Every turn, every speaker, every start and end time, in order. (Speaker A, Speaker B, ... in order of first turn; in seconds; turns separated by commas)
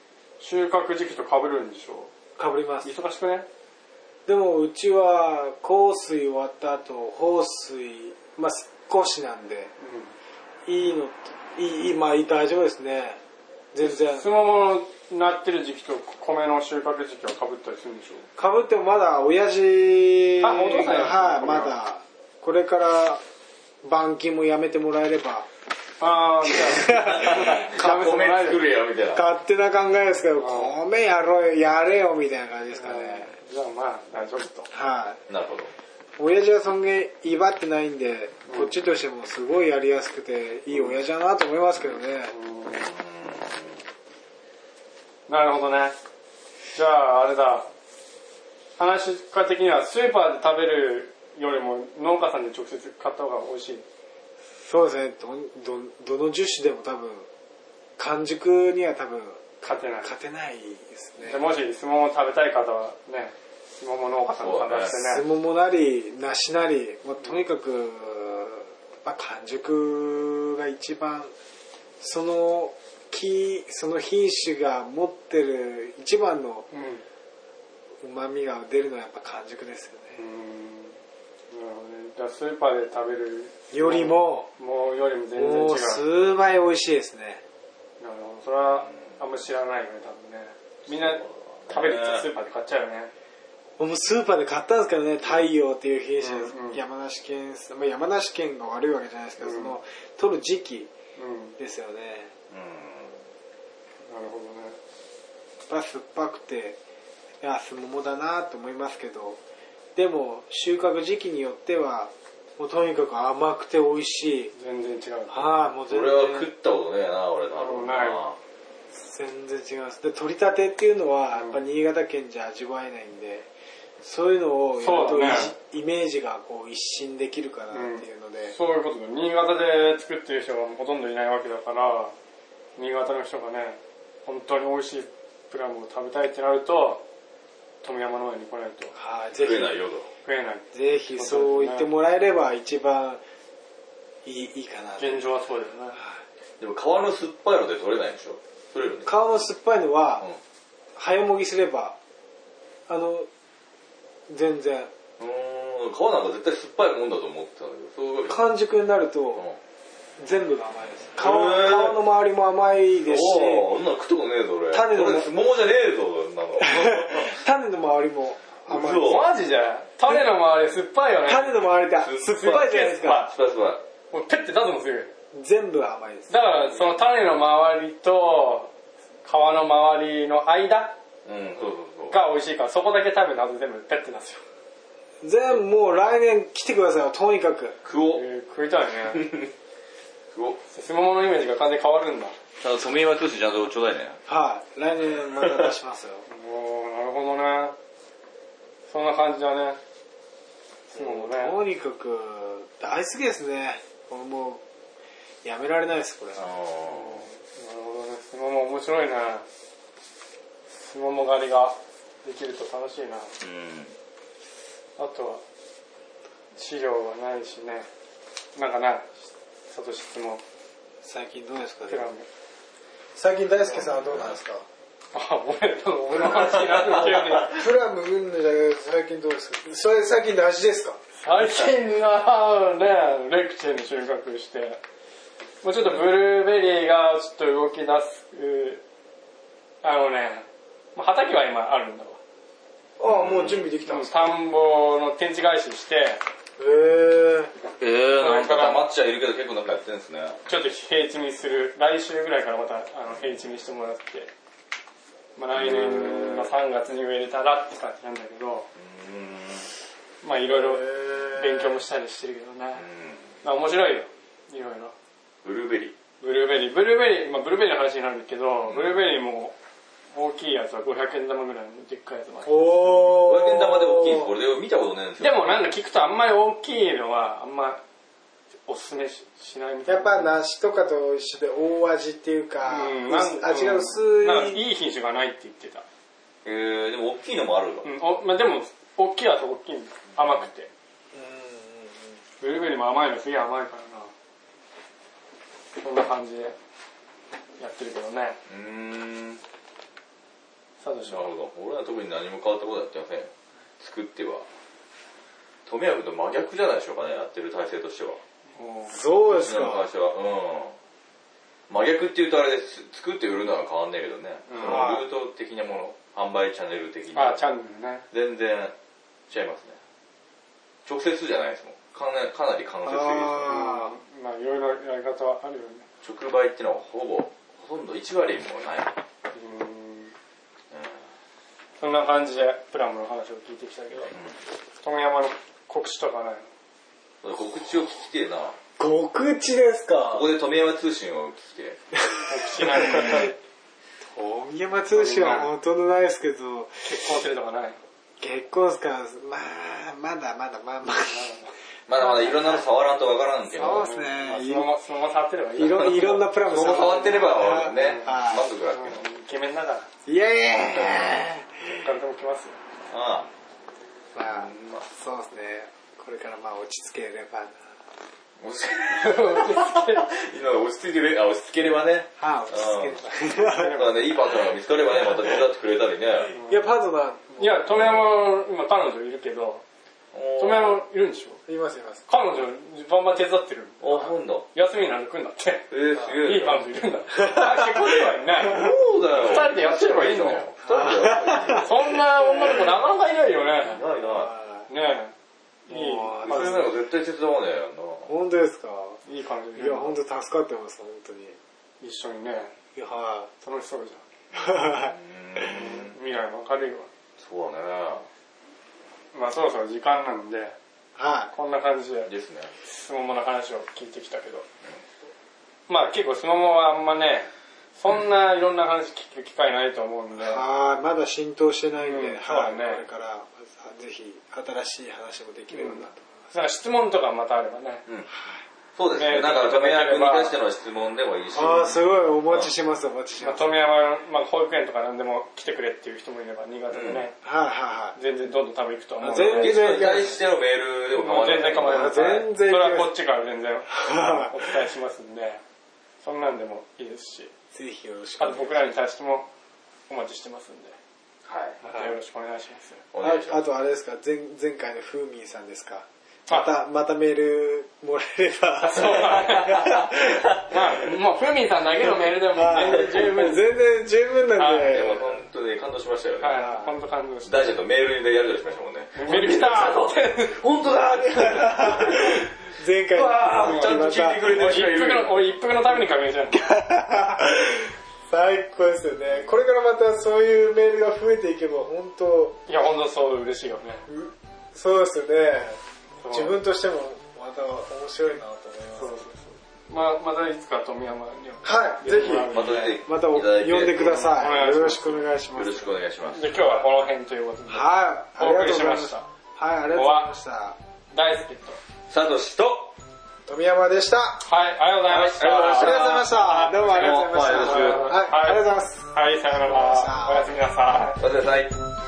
Speaker A: 0.4-2.1, Speaker B: 2.4-2.9, Speaker A: 2.8-3.5, Speaker B: 4.2-9.7, Speaker A: 9.8-10.1, Speaker B: 10.6-13.2, Speaker B: 13.7-14.3, Speaker A: 13.8-18.3, Speaker B: 18.4-23.2, Speaker A: 20.4-21.7, Speaker B: 23.8-25.5, Speaker A: 26.0-28.6, Speaker B: 26.4-28.0, Speaker C: 27.0-29.3, Speaker B: 29.1-33.3, Speaker A: 30.4-30.7, Speaker A: 32.8-34.7, Speaker B: 34.7-35.2, Speaker C: 35.3-35.7, Speaker B: 36.2-42.3, Speaker A: 42.3-42.9, Speaker C: 42.7-43.8, Speaker A: 45.3-46.0, Speaker A: 46.7-47.7, Speaker A: 48.8-53.9, Speaker B: 54.6-57.3, Speaker B: 58.0-59.5, Speaker A: 59.6-60.1, Speaker B: 60.0-61.4, Speaker A: 61.2-65.2, Speaker C: 64.3-64.9, Speaker B: 64.9-71.3, Speaker B: 72.0-76.7, Speaker A: 76.7-77.0, Speaker B: 78.0-80.2, Speaker A: 80.1-81.0, Speaker A: 81.5-86.0, Speaker B: 83.7-84.5, Speaker B: 85.3-87.4, Speaker A: 88.0-93.1, Speaker C: 88.6-88.9, Speaker C: 90.9-92.3, Speaker B: 93.8-100.9, Speaker A: 96.2-96.8, Speaker A: 99.4-99.7, Speaker A: 101.2-101.6, Speaker B: 101.6-102.3, Speaker C: 102.5-103.2, Speaker A: 104.0-104.8, Speaker B: 105.7-106.8, Speaker B: 107.4-109.4, Speaker B: 109.9-114.5, Speaker A: 114.5-115.7, Speaker B: 115.3-116.5, Speaker C: 115.9-118.4, Speaker A: 117.6-118.3, Speaker B: 118.9-123.5, Speaker A: 121.3-121.6, Speaker B: 124.0-128.5, Speaker A: 124.8-125.5, Speaker A: 127.7-132.1, Speaker A: 132.8-137.0, Speaker A: 137.8-138.9, Speaker B: 138.9-139.8, Speaker C: 139.4-140.1, Speaker A: 140.2-141.9, Speaker B: 140.7-143.2, Speaker B: 144.2-145.2, Speaker A: 145.0-146.0, Speaker B: 145.9-146.2, Speaker C: 146.6-149.1, Speaker B: 149.0-150.3, Speaker B: 150.9-152.0, Speaker B: 152.9-153.3, Speaker B: 154.3-154.9, Speaker C: 155.2-158.5, Speaker B: 158.3-159.4, Speaker B: 160.2-163.7, Speaker C: 161.2-162.0, Speaker C: 163.0-167.4, Speaker B: 164.7-165.3, Speaker B: 166.6-169.2, Speaker C: 168.7-169.2, Speaker A: 169.0-171.7, Speaker B: 171.2-173.3, Speaker C: 172.0-173.8, Speaker A: 172.3-173.3, Speaker A: 174.1-175.1, Speaker B: 175.3-176.3, Speaker A: 176.3-178.7, Speaker A: 179.2-180.9, Speaker C: 181.2-182.2, Speaker A: 182.1-184.4, Speaker B: 185.2-187.8, Speaker C: 187.8-188.2, Speaker A: 188.1-189.3, Speaker C: 189.1-189.5, Speaker C: 190.3-190.6, Speaker A: 190.7-192.3, Speaker C: 192.6-194.2, Speaker B: 194.3-196.2, Speaker A: 196.3-197.7, Speaker A: 198.9-199.8, Speaker B: 200.9-204.6, Speaker A: 200.9-201.6, Speaker B: 205.4-206.5, Speaker C: 206.4-207.2, Speaker A: 206.9-209.4, Speaker A: 210.7-213.4, Speaker C: 213.4-213.9, Speaker A: 215.0-215.4, Speaker A: 216.5-217.9, Speaker A: 218.5-220.4, Speaker B: 221.0-222.1, Speaker A: 221.9-222.3, Speaker B: 223.1-224.7, Speaker C: 223.9-224.3, Speaker A: 225.1-227.6, Speaker B: 227.4-231.0, Speaker A: 231.2-234.8, Speaker A: 235.6-238.8, Speaker C: 235.8-236.1, Speaker A: 239.8-242.2, Speaker B: 243.0-244.4, Speaker C: 243.0-243.7, Speaker A: 243.8-246.2, Speaker B: 246.6-247.5, Speaker C: 247.8-250.4, Speaker A: 248.2-248.9, Speaker A: 250.5-254.3, Speaker A: 255.3-258.7, Speaker C: 255.5-256.5, Speaker C: 258.7-259.7, Speaker A: 260.2-262.9, Speaker B: 260.5-261.8, Speaker C: 262.8-263.3, Speaker A: 263.4-264.9, Speaker C: 265.4-265.9, Speaker A: 266.2-269.5, Speaker C: 268.7-269.0, Speaker A: 270.1-273.2, Speaker B: 272.4-274.3, Speaker C: 273.1-275.7, Speaker A: 275.2-277.8, Speaker A: 278.6-280.3, Speaker B: 279.9-284.6, Speaker A: 282.6-285.8, Speaker C: 286.4-287.9, Speaker A: 287.8-290.7, Speaker B: 291.1-292.2, Speaker A: 292.4-294.1, Speaker A: 295.8-296.6, Speaker A: 297.6-298.4, Speaker C: 298.5-299.4, Speaker A: 300.8-301.3, Speaker C: 301.0-304.4, Speaker C: 305.6-308.2, Speaker A: 308.5-309.0, Speaker B: 308.9-309.9, Speaker C: 309.1-310.8, Speaker C: 311.7-317.4, Speaker A: 314.5-314.8, Speaker B: 314.6-315.1, Speaker A: 317.1-318.1, Speaker C: 318.1-318.7, Speaker C: 319.3-319.8, Speaker C: 320.9-323.7, Speaker B: 322.8-323.9, Speaker A: 323.4-325.9, Speaker C: 326.0-328.9, Speaker A: 329.3-330.1, Speaker C: 330.7-331.0, Speaker A: 331.8-334.1, Speaker C: 334.1-334.4, Speaker A: 334.8-336.5, Speaker C: 337.2-338.6, Speaker B: 338.8-340.3, Speaker C: 340.0-341.8, Speaker B: 342.2-343.3, Speaker A: 342.3-343.3, Speaker B: 344.0-347.2, Speaker A: 344.9-345.5, Speaker A: 346.8-347.8, Speaker B: 348.2-351.4, Speaker A: 350.9-351.5, Speaker C: 351.9-353.9, Speaker B: 352.0-352.6, Speaker B: 353.5-354.7, Speaker A: 353.6-356.3, Speaker B: 355.6-358.5, Speaker C: 355.7-359.0, Speaker A: 357.7-358.1, Speaker A: 358.7-359.9, Speaker B: 360.1-361.6, Speaker C: 360.7-361.2, Speaker A: 361.8-362.6, Speaker C: 362.9-363.3, Speaker B: 364.1-367.7, Speaker C: 364.2-364.9, Speaker C: 368.4-376.3, Speaker A: 368.8-370.1, Speaker B: 372.2-373.9, Speaker A: 373.4-373.9, Speaker B: 376.4-377.8, Speaker A: 377.4-379.6, Speaker C: 380.1-380.8, Speaker A: 380.4-381.4, Speaker B: 381.5-382.1, Speaker A: 382.1-390.5, Speaker C: 383.8-384.5, Speaker C: 385.7-386.7, Speaker B: 387.2-387.9, Speaker C: 388.3-392.0, Speaker B: 390.7-391.6, Speaker A: 391.5-393.8, Speaker C: 393.6-394.3, Speaker B: 394.1-394.6, Speaker A: 394.7-395.1, Speaker A: 395.7-396.7, Speaker B: 395.7-396.7, Speaker C: 396.2-398.1, Speaker B: 398.1-399.0, Speaker A: 399.1-400.0, Speaker B: 399.5-401.4, Speaker A: 401.8-402.5, Speaker B: 402.7-403.3, Speaker A: 403.4-404.0, Speaker B: 404.3-404.9, Speaker C: 404.4-405.9, Speaker A: 405.4-406.9, Speaker C: 407.2-408.1, Speaker A: 409.1-410.6, Speaker B: 410.9-411.3, Speaker A: 411.3-412.1, Speaker C: 412.1-412.5, Speaker A: 412.6-414.4, Speaker A: 415.7-420.4, Speaker B: 420.1-426.1, Speaker A: 421.8-422.8, Speaker A: 425.5-427.8, Speaker B: 428.1-428.4, Speaker C: 428.7-432.5, Speaker A: 428.9-430.4, Speaker B: 431.3-433.5, Speaker A: 433.2-437.1, Speaker C: 436.7-437.1, Speaker B: 437.2-437.9, Speaker A: 437.9-439.7, Speaker B: 439.0-440.2, Speaker C: 439.1-442.2, Speaker A: 440.9-445.4, Speaker B: 441.3-442.9, Speaker B: 443.7-444.6, Speaker A: 446.0-447.3, Speaker B: 447.5-448.6, Speaker A: 448.2-449.3, Speaker A: 449.9-450.8, Speaker C: 451.2-451.6, Speaker A: 451.6-452.8, Speaker C: 452.9-453.4, Speaker B: 453.0-460.4, Speaker A: 458.6-459.8, Speaker C: 459.3-460.4, Speaker A: 460.4-463.5, Speaker B: 462.3-465.2, Speaker A: 464.4-465.0, Speaker C: 464.6-466.5, Speaker A: 466.2-467.5, Speaker B: 466.4-466.7, Speaker C: 467.2-475.2, Speaker A: 468.9-470.4, Speaker B: 471.1-474.2, Speaker A: 473.4-476.6, Speaker B: 476.3-482.4, Speaker A: 482.5-483.9, Speaker B: 483.9-489.0, Speaker A: 486.0-486.4, Speaker A: 488.7-492.8, Speaker B: 491.4-495.7, Speaker C: 492.2-494.1, Speaker A: 493.7-495.1, Speaker C: 495.3-496.3, Speaker A: 496.1-499.1, Speaker B: 497.5-500.6, Speaker A: 499.7-500.1, Speaker A: 500.9-501.6, Speaker C: 501.9-502.7, Speaker B: 503.2-504.2, Speaker A: 504.2-511.0, Speaker C: 504.9-507.9, Speaker B: 505.5-510.3, Speaker C: 511.0-511.6